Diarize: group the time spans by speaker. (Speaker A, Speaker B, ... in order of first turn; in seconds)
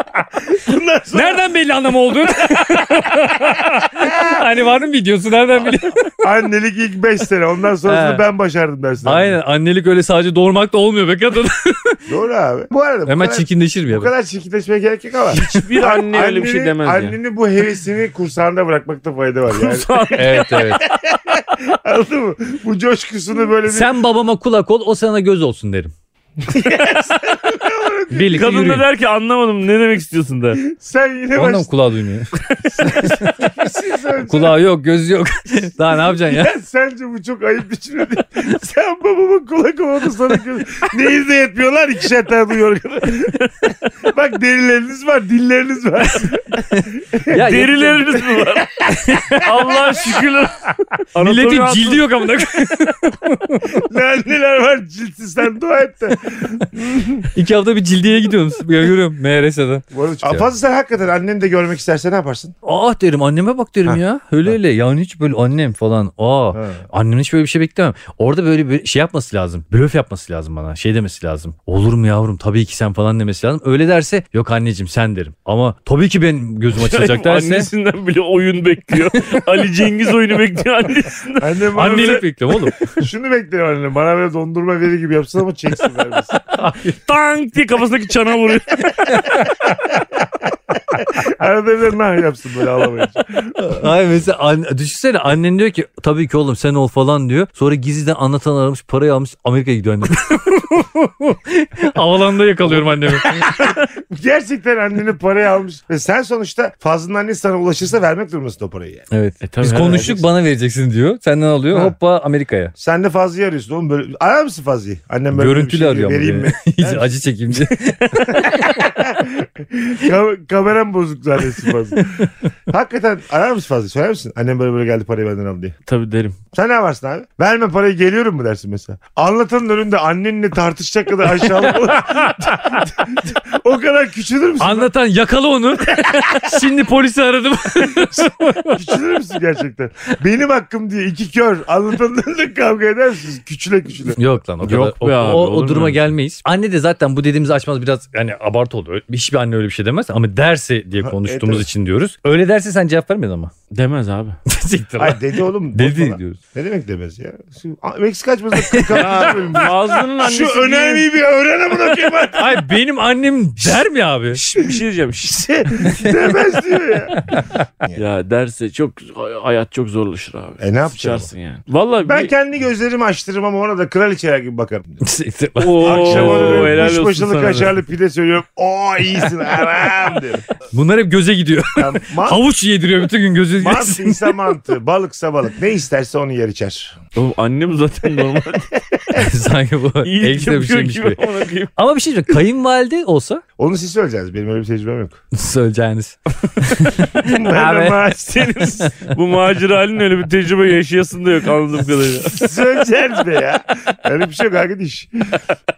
Speaker A: 0.5-1.4, 6.2-9.4, 12.1-23.9, 26.4-28.5, 30.6-31.7, 32.6-34.6, 36.0-43.5, 44.0-47.5, 48.7-49.4, 53.6-57.3, 59.9-62.5, 66.5-66.8, 81.4-82.3, 82.8-86.4, 90.9-93.9, 102.8-109.1, 109.8-110.2, 112.8-117.2, 118.1-125.7, 126.5-134.9, 135.9-136.5, 138.7-144.2, 151.0-151.7, 155.0-162.6, 165.2-167.2, 170.6-171.3, 172.0-175.0, 175.8-180.4, 181.8-182.4, 183.6-186.9, 189.0-189.2, 193.6-195.2, 197.2-198.8, 202.2-205.4
Speaker B: 1.1-6.3, 7.8-8.2, 9.0-12.0, 13.1-14.1, 20.2-20.8, 23.6-25.9, 28.1-28.8, 31.3-33.4, 34.2-36.5, 46.8-48.2, 48.9-49.5, 51.1-53.7, 57.3-60.5, 62.6-77.7, 79.1-79.4, 81.7-82.9, 86.5-87.0, 89.1-89.5, 93.6-103.6, 109.1-112.7, 115.3-118.8, 134.6-138.8, 144.2-153.5, 154.5-156.4, 158.6-159.7, 162.3-164.4, 165.8-166.2, 167.1-167.6, 175.0-177.0, 180.7-184.4, 189.1-191.2, 191.8-193.4, 195.3-198.0
Speaker C: 15.3-17.1, 19.5-20.6, 28.3-30.6, 47.3-48.8, 49.3-52.0, 76.7-82.2, 86.8-89.3, 109.4-110.2, 118.1-118.4, 125.8-126.3, 144.6-146.1, 153.7-154.4, 158.9-161.1, 164.3-165.4, 167.9-172.3, 175.6-177.7, 187.1-188.7, 190.0-191.7, 198.2-202.3